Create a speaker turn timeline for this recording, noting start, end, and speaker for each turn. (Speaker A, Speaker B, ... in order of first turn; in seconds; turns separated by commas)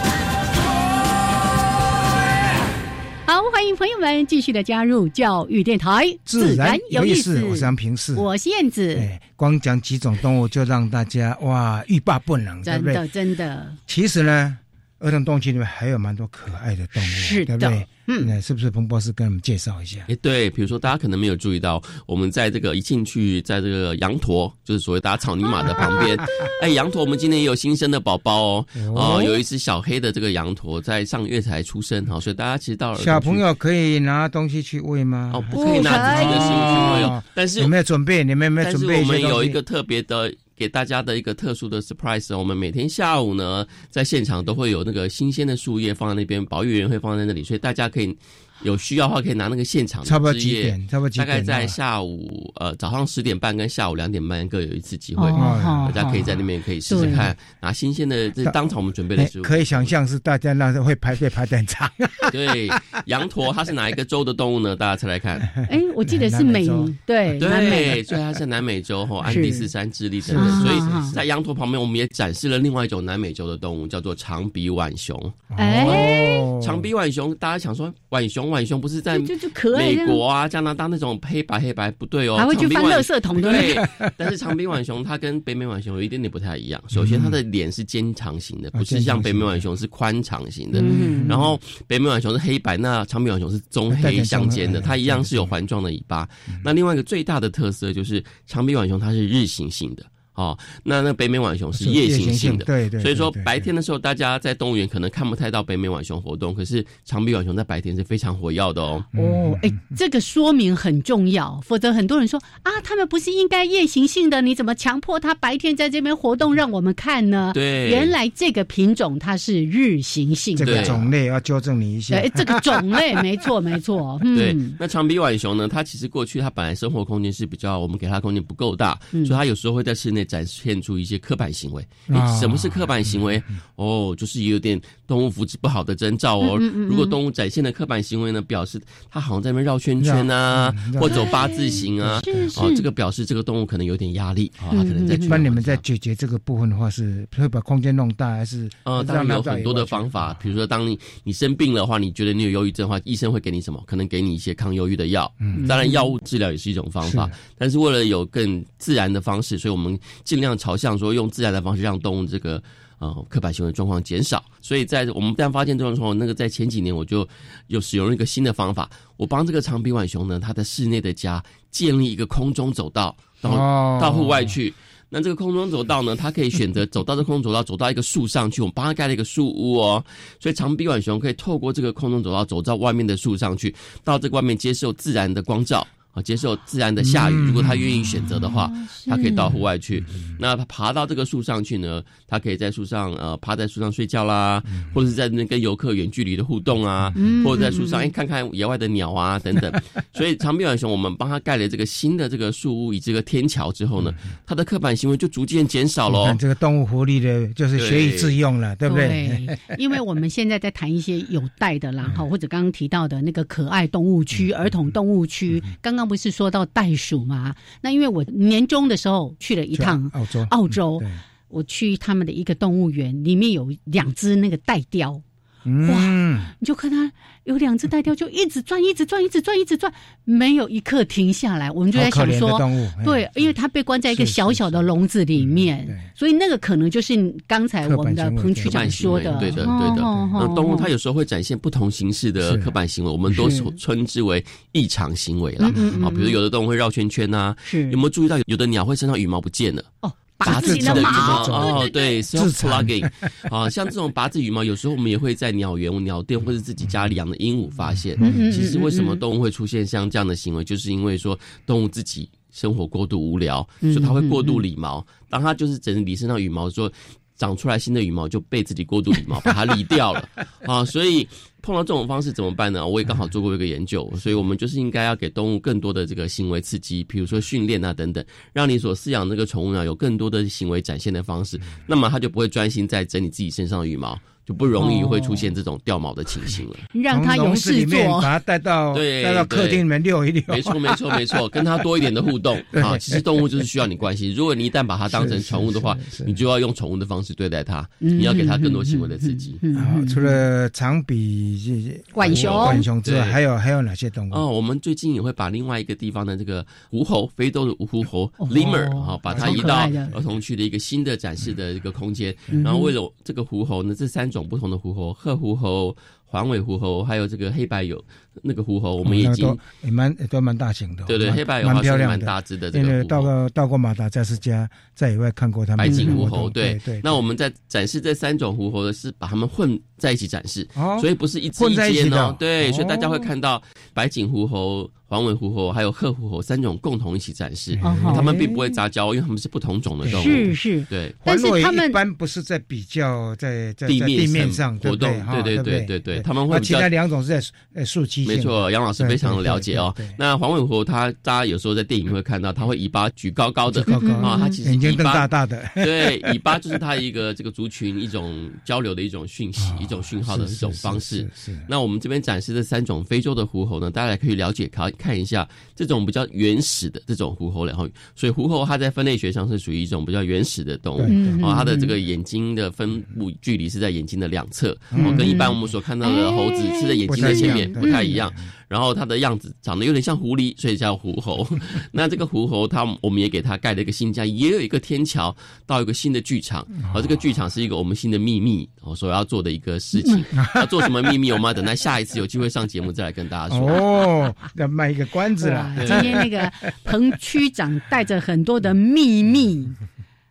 Speaker A: 3.3-9.1, Speaker B: 6.3-8.2, Speaker B: 8.9-13.0, Speaker A: 12.6-13.8, Speaker B: 13.9-20.1, Speaker A: 17.0-18.3, Speaker C: 20.1-33.4, Speaker B: 28.8-29.3, Speaker B: 33.0-39.6, Speaker C: 35.3-37.7, Speaker A: 35.7-36.2, Speaker C: 38.6-59.9, Speaker B: 50.0-51.8, Speaker A: 55.2-56.0, Speaker B: 55.4-56.4, Speaker A: 56.9-57.3, Speaker B: 57.0-57.2, Speaker B: 59.1-62.7, Speaker C: 62.3-65.5, Speaker B: 65.5-66.9, Speaker A: 65.7-68.0, Speaker C: 67.4-109.0, Speaker A: 69.2-69.7, Speaker B: 70.2-71.2, Speaker A: 70.3-71.2, Speaker B: 75.5-76.9, Speaker A: 75.6-76.4, Speaker A: 79.1-80.2, Speaker A: 82.3-83.8, Speaker B: 83.5-84.1, Speaker B: 86.9-87.4, Speaker B: 88.7-89.7, Speaker B: 90.7-91.6, Speaker A: 90.7-91.3, Speaker B: 93.9-95.5, Speaker B: 101.7-103.7, Speaker B: 109.1-110.0, Speaker A: 109.1-120.9, Speaker C: 117.5-118.1, Speaker B: 120.5-123.5, Speaker C: 120.6-121.0, Speaker A: 122.1-124.8, Speaker C: 124.3-145.8, Speaker B: 132.1-133.4, Speaker A: 136.4-137.1, Speaker B: 140.0-142.7, Speaker A: 141.1-142.8, Speaker A: 144.7-145.4, Speaker B: 145.2-150.4, Speaker C: 148.8-206.4, Speaker A: 155.6-156.0, Speaker B: 157.0-157.3, Speaker B: 173.4-174.5, Speaker B: 187.0-188.6, Speaker A: 188.8-189.5, Speaker B: 197.0-197.3, Speaker A: 197.2-198.1, Speaker B: 206.1-209.8, Speaker C: 207.8-208.4, Speaker A: 208.9-225.2, Speaker B: 214.3-214.7, Speaker B: 219.7-221.2, Speaker B: 225.6-226.5, Speaker A: 225.8-240.9, Speaker B: 231.9-233.5, Speaker B: 234.1-236.1, Speaker B: 237.8-240.5, Speaker C: 238.6-249.9, Speaker B: 242.4-242.7, Speaker A: 243.3-243.7, Speaker A: 245.6-246.3, Speaker B: 245.7-246.1, Speaker A: 247.6-248.0, Speaker A: 250.0-252.1, Speaker B: 250.4-253.1, Speaker C: 250.4-286.8, Speaker B: 258.2-258.7, Speaker A: 258.2-259.2, Speaker A: 263.8-264.6, Speaker A: 284.8-285.5, Speaker A: 286.9-288.3, Speaker B: 287.1-291.2, Speaker C: 288.9-289.8, Speaker C: 290.5-299.6, Speaker B: 292.7-293.2, Speaker B: 295.1-296.3, Speaker A: 298.0-300.4, Speaker B: 299.7-304.4, Speaker A: 302.1-302.8, Speaker C: 302.2-303.4, Speaker C: 304.3-319.6, Speaker A: 308.4-310.1, Speaker B: 309.3-310.2, Speaker A: 312.6-312.9, Speaker B: 319.0-327.1, Speaker C: 321.1-323.3, Speaker C: 325.8-341.1, Speaker A: 325.9-326.2, Speaker B: 330.8-333.3, Speaker B: 337.7-338.6, Speaker A: 337.8-338.3, Speaker B: 340.0-340.6, Speaker A: 340.1-342.0, Speaker B: 341.2-350.1, Speaker C: 343.9-346.9, Speaker C: 348.2-393.8, Speaker B: 353.7-356.8, Speaker A: 353.9-354.6, Speaker B: 359.6-361.7, Speaker B: 371.0-371.4, Speaker A: 371.1-371.9, Speaker B: 374.9-375.6, Speaker A: 375.0-378.2, Speaker B: 377.1-378.4, Speaker B: 386.8-387.1, Speaker A: 390.0-390.2, Speaker B: 390.4-390.9, Speaker B: 393.5-396.5, Speaker A: 395.4-399.8, Speaker C: 395.8-396.2